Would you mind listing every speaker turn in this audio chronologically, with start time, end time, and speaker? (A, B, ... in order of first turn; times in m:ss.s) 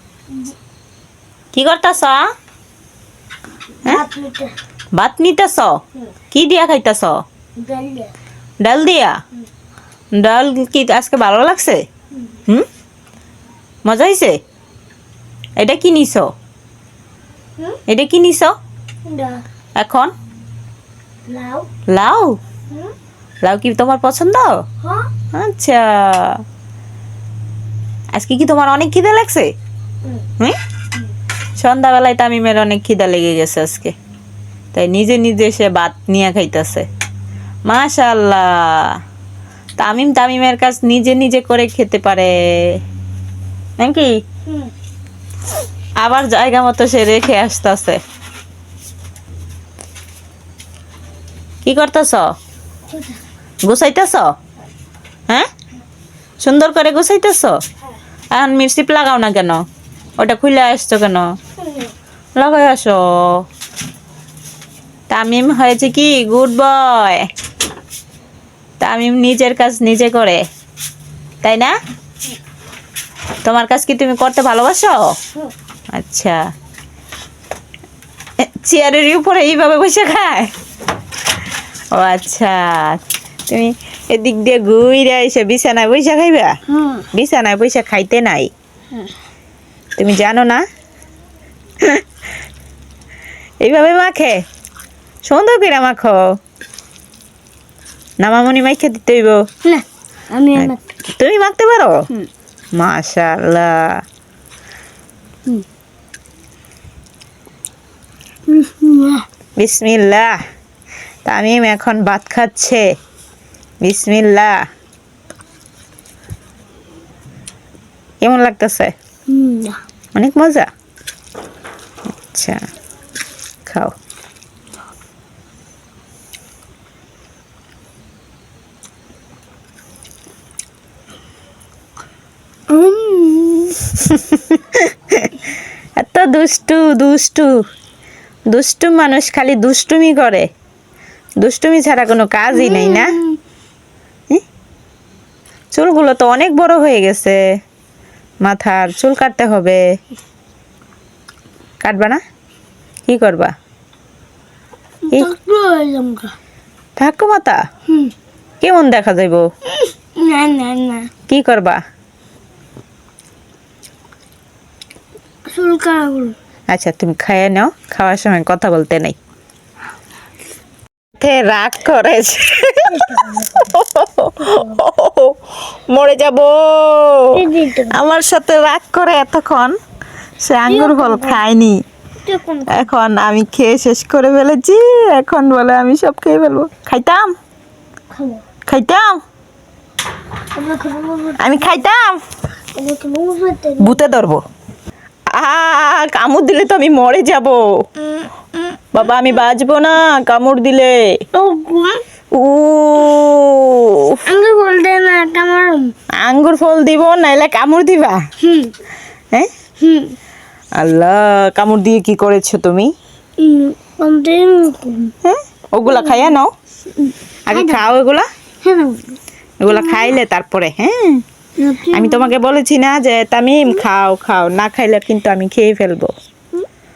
0:01.5-0:02.2 A
0:03.8-0:04.5 B
0:05.0-0:05.8 A
0:06.3-0:07.2 A
0:07.6-0:08.1 B
0:08.6-0:09.2 A
0:10.2-0:11.8 A
0:13.8-0:14.4 A
0:15.6-0:16.3 A
0:17.9-0:18.6 A
0:19.0-0:19.4 B
0:19.8-0:20.1 A
0:21.3-0:21.7 B
0:21.9-0:22.4 A
0:23.4-0:24.6 A
0:24.8-0:25.1 B
0:25.3-0:26.4 A
0:28.1-0:29.5 A
0:31.6-0:33.9 A
0:34.7-0:36.9 A
0:37.7-0:39.0 A
0:39.8-0:42.8 A
0:43.8-0:44.2 A
0:46.0-0:48.0 A
0:51.6-0:52.3 A
0:52.9-0:53.2 B
0:53.6-0:54.3 A
0:56.4-0:57.6 A
0:58.3-0:59.6 A
1:00.2-1:01.4 A
1:01.6-1:01.9 B
1:02.4-1:03.5 A
1:05.1-1:07.3 A
1:08.8-1:10.4 A
1:11.4-1:11.8 A
1:13.4-1:15.2 A
1:15.9-1:16.5 A
1:18.4-1:20.5 A
1:21.9-1:26.6 A
1:26.7-1:27.1 B
1:27.1-1:28.5 A
1:30.0-1:30.6 A
1:33.6-1:34.4 A
1:35.2-1:36.4 A
1:38.2-1:39.4 A
1:39.6-1:40.8 B
1:40.6-1:42.0 A
1:42.8-1:44.0 A
1:48.5-1:49.2 B
1:49.6-1:50.4 A
1:51.3-1:52.8 A
1:53.8-1:54.5 A
1:58.2-1:58.9 A
1:59.3-1:59.8 B
2:00.2-2:00.7 A
2:02.3-2:02.6 A
2:03.7-2:03.9 A
2:12.7-2:13.9 B
2:14.0-2:15.4 A
2:16.0-2:17.6 A
2:18.5-2:20.5 A
2:21.4-2:23.1 A
2:22.5-2:23.4 B
2:25.7-2:27.4 A
2:28.4-2:29.8 A
2:31.8-2:32.2 A
2:33.1-2:33.5 A
2:35.1-2:36.4 B
2:37.0-2:37.6 A
2:38.6-2:39.5 A
2:39.7-2:41.1 B
2:41.3-2:41.8 A
2:45.5-2:46.4 B
2:46.7-2:49.2 A
2:51.2-2:55.4 A
2:52.9-2:53.7 B
2:54.4-2:54.8 B
2:55.9-2:59.8 A
2:57.3-2:58.0 B
3:00.4-3:01.8 A
3:00.7-3:01.4 B
3:02.2-3:02.9 B
3:02.7-3:07.3 A
3:08.1-3:08.4 B
3:08.7-3:09.2 A
3:10.5-3:11.8 B
3:11.4-3:12.2 A
3:12.8-3:14.0 B
3:13.8-3:14.4 A
3:15.3-3:17.6 A
3:18.9-3:21.1 A
3:21.3-3:22.0 B
3:22.3-3:24.2 A
3:24.3-3:25.9 B
3:26.2-3:28.2 A
3:28.4-3:28.7 B
3:29.8-3:30.2 B
3:30.8-3:32.9 A
3:33.4-3:35.1 B
3:35.2-3:36.5 A
3:35.8-3:36.3 B
3:37.0-3:37.8 B
3:37.5-3:38.3 A
3:38.6-3:40.2 B
3:39.6-3:41.2 A
3:41.6-3:42.3 B
3:41.9-3:46.1 A